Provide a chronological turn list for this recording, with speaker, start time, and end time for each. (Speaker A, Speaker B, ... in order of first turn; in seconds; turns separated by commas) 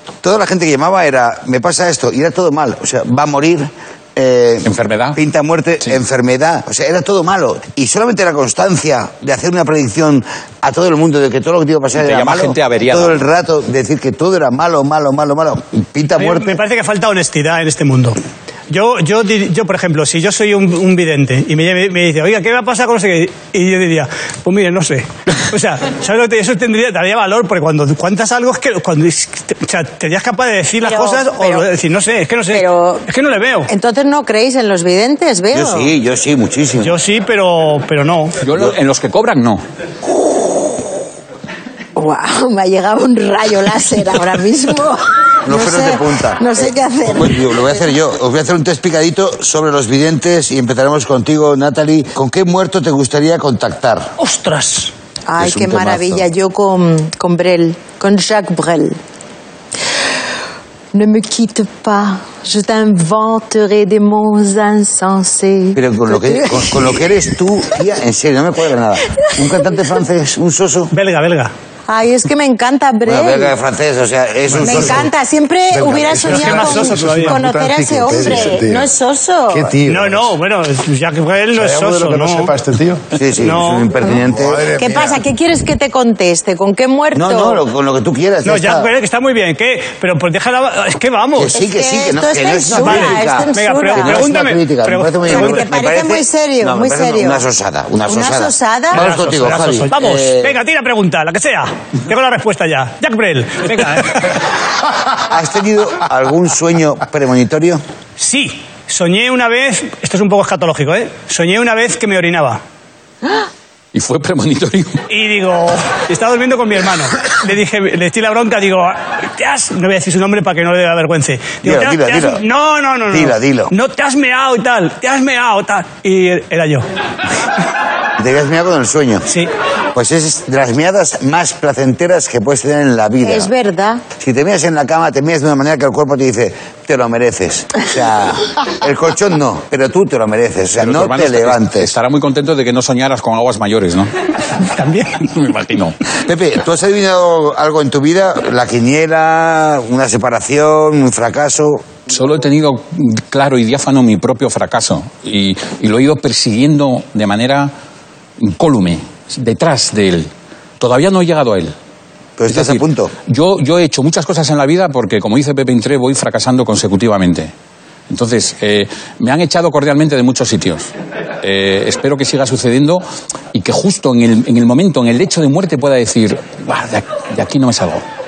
Speaker A: 0.2-16.6, Speaker B: 4.6-5.2, Speaker B: 11.9-13.2, Speaker C: 16.2-18.2, Speaker C: 18.7-33.7, Speaker D: 30.8-31.7, Speaker D: 32.5-33.0, Speaker D: 33.7-35.9, Speaker A: 35.5-36.9, Speaker C: 36.8-38.4, Speaker B: 38.4-39.6, Speaker D: 42.0-47.9, Speaker A: 45.4-54.1, Speaker C: 54.2-54.9, Speaker D: 55.3-59.0, Speaker A: 55.4-56.3, Speaker D: 60.9-67.0, Speaker A: 65.7-70.9, Speaker C: 70.9-71.5, Speaker D: 71.9-73.5, Speaker A: 73.0-75.1, Speaker D: 74.6-79.7, Speaker E: 75.7-78.9, Speaker A: 75.8-76.1, Speaker C: 76.3-77.4, Speaker E: 79.5-80.3, Speaker C: 79.9-82.5, Speaker E: 81.5-83.0, Speaker A: 83.1-84.7, Speaker C: 83.4-83.9, Speaker E: 84.1-85.2, Speaker D: 84.8-87.6, Speaker A: 87.1-88.9, Speaker C: 88.4-91.5, Speaker A: 91.3-100.5, Speaker D: 91.5-94.2, Speaker C: 92.7-95.5, Speaker D: 95.2-97.4, Speaker D: 98.0-99.0, Speaker C: 98.9-104.4, Speaker A: 105.2-107.8, Speaker C: 108.2-112.6, Speaker B: 113.9-115.0, Speaker C: 115.1-126.9, Speaker A: 121.6-122.4, Speaker A: 123.1-123.7, Speaker A: 128.2-129.3, Speaker A: 129.9-133.5, Speaker D: 133.2-134.0, Speaker A: 134.2-141.9, Speaker B: 140.8-144.1, Speaker C: 144.6-145.2, Speaker B: 145.2-146.0, Speaker A: 146.2-151.9, Speaker B: 152.1-157.7, Speaker B: 158.4-161.7, Speaker A: 162.4-163.1, Speaker B: 162.5-167.5, Speaker B: 168.1-170.9, Speaker B: 171.4-178.0